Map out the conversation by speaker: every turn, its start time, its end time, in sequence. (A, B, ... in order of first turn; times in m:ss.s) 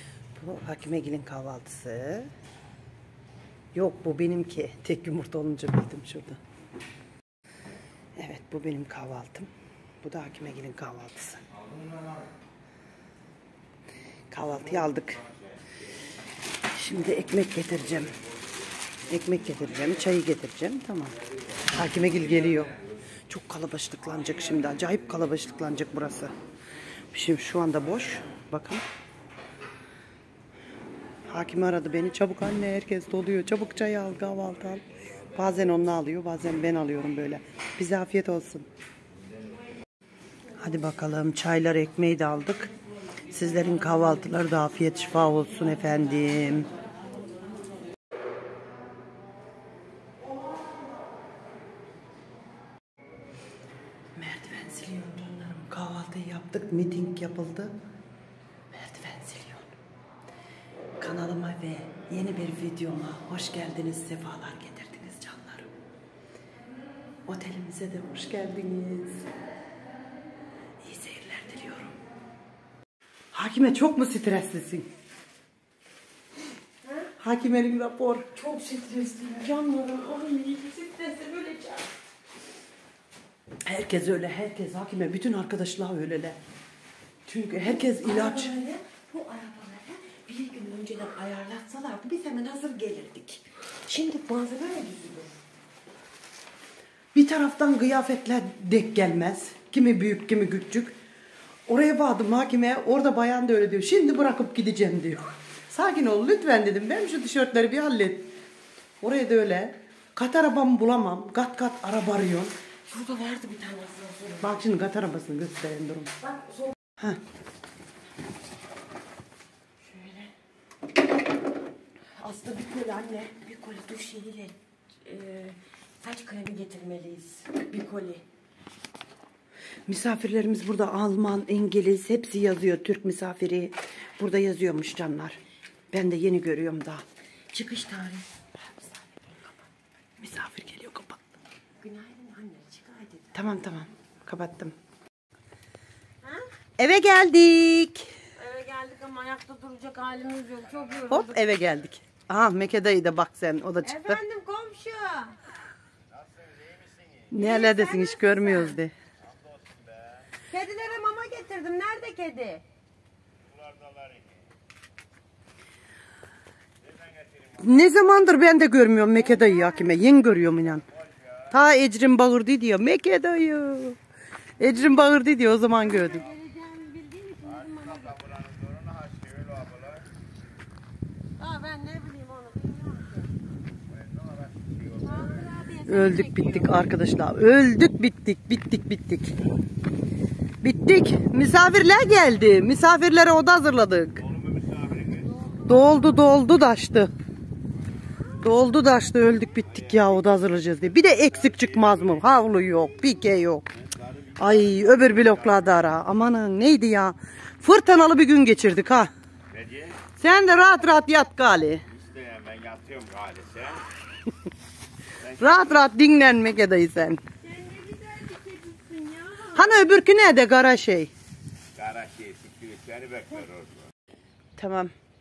0:00.4-0:02.3 A
0:03.7-0:06.4 A
0:08.2-0:09.5 A
0:10.0-0:11.4 A
0:14.3-0:15.2 A
0:16.8-0:18.1 A
0:19.1-0:21.2 A
0:21.7-0:22.7 A
0:23.3-0:26.3 A
0:27.1-0:28.8 A
0:31.3-0:34.8 A
0:35.4-0:38.7 A
0:40.6-0:42.7 A
0:43.3-0:46.7 A
0:54.2-0:57.7 A
0:58.7-0:59.7 A
1:01.0-1:05.7 A
1:07.3-1:09.3 A
1:10.8-1:11.9 A
1:13.3-1:14.9 A
1:17.2-1:18.3 A
1:18.4-1:21.9 B
1:23.7-1:26.4 A
1:27.3-1:28.5 A
1:27.5-1:35.3 B
1:37.1-1:41.0 A
1:41.7-1:48.3 A
1:49.0-1:52.5 A
1:52.9-1:54.5 B
1:54.4-1:56.1 A
1:56.2-1:56.7 B
1:59.9-2:00.3 B
2:02.2-2:08.2 B
2:09.9-2:15.4 A
2:15.9-2:17.0 A
2:17.5-2:19.5 B
2:20.2-2:21.3 A
2:21.8-2:23.4 B
2:23.3-2:24.8 A
2:26.8-2:28.1 A
2:28.4-2:31.4 B
2:31.1-2:34.2 A
2:33.8-2:35.4 B
2:37.3-2:38.9 A
2:37.3-2:38.8 B
2:40.5-2:42.6 B
2:43.5-2:44.4 C
2:47.0-2:47.6 C
2:47.6-2:50.8 A
2:49.2-2:49.9 B
2:51.5-2:54.0 A
2:54.6-2:56.3 A
2:55.8-2:58.2 B
2:57.6-3:00.1 C
3:01.4-3:03.3 B
3:04.1-3:05.2 C
3:05.0-3:06.7 B
3:05.8-3:09.3 A
3:10.6-3:14.2 A
3:14.3-3:15.3 C
3:15.6-3:17.1 A
3:18.4-3:23.7 A
3:21.5-3:22.1 C
3:23.9-3:25.6 C
3:24.4-3:29.1 A
3:29.5-3:30.0 C
3:30.2-3:31.8 A
3:31.9-3:33.9 C
3:35.4-3:37.2 A
3:37.4-3:39.8 B
3:39.5-3:41.1 A
3:41.8-3:43.9 C
3:44.6-3:44.9 A